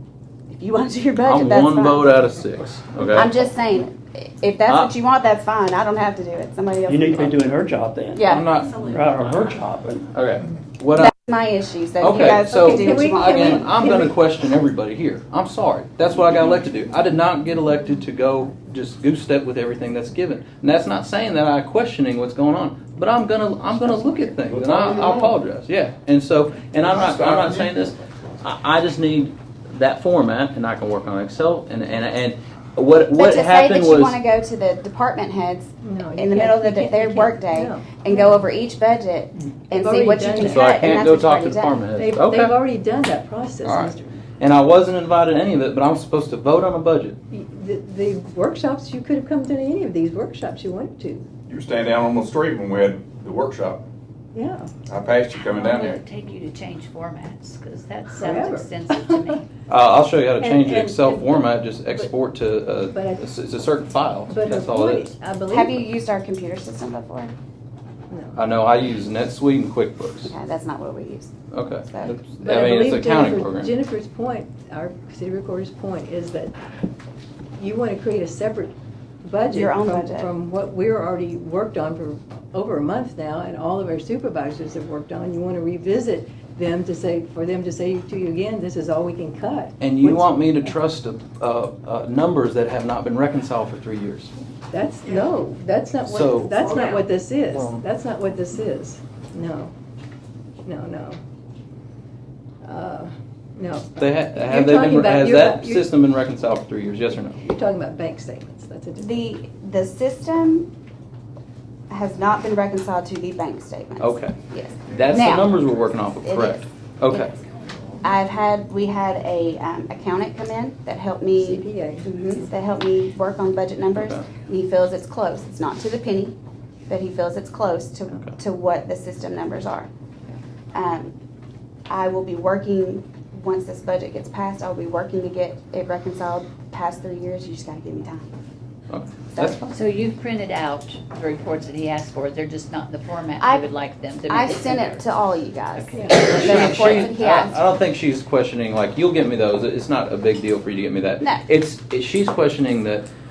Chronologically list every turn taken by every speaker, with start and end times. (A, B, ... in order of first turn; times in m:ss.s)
0:00.5-0:02.2 A
0:01.2-0:03.3 B
0:03.1-0:07.3 A
0:06.9-0:08.2 C
0:08.1-0:08.5 A
0:08.2-0:09.5 B
0:08.9-0:10.0 C
0:10.1-0:11.1 B
0:10.9-0:13.7 A
0:12.0-0:34.2 B
0:12.7-0:14.1 D
0:24.5-0:25.3 E
0:26.8-0:27.7 E
0:33.1-0:41.8 A
0:35.8-0:38.4 D
0:39.7-0:41.0 D
0:40.4-0:42.6 B
0:41.9-0:44.2 D
0:43.6-0:47.2 B
0:47.3-0:51.3 D
0:51.5-0:53.8 E
0:54.3-0:54.7 D
0:54.9-0:56.0 E
0:55.3-0:59.4 F
0:58.1-0:59.4 D
0:59.7-1:05.1 B
1:00.4-1:02.1 D
1:02.9-1:03.3 D
1:04.3-1:05.8 D
1:05.5-1:07.3 A
1:08.1-1:08.4 D
1:08.3-1:10.3 B
1:10.2-1:11.3 A
1:11.5-1:13.7 B
1:11.8-1:12.1 A
1:12.4-1:16.5 D
1:17.6-1:30.4 D
1:19.5-1:20.3 A
1:29.8-1:34.3 B
1:34.7-1:39.7 D
1:36.1-1:37.0 B
1:37.5-1:37.8 B
1:40.6-1:41.2 D
1:42.6-1:45.9 D
1:44.0-1:47.4 B
1:47.3-1:49.2 D
1:49.0-1:50.7 A
1:51.9-1:55.5 A
1:54.0-1:54.3 B
1:54.9-1:57.3 B
1:56.2-1:57.4 A
1:58.0-2:06.3 A
2:01.4-2:02.1 D
2:04.0-2:04.2 B
2:06.9-2:09.9 A
2:10.7-2:11.1 A
2:11.9-2:18.2 A
2:18.9-2:19.8 B
2:19.3-2:19.6 A
2:19.7-2:25.1 F
2:23.4-2:23.7 A
2:24.3-2:27.6 A
2:25.8-2:27.0 F
2:25.9-2:26.2 D
2:26.2-2:33.1 B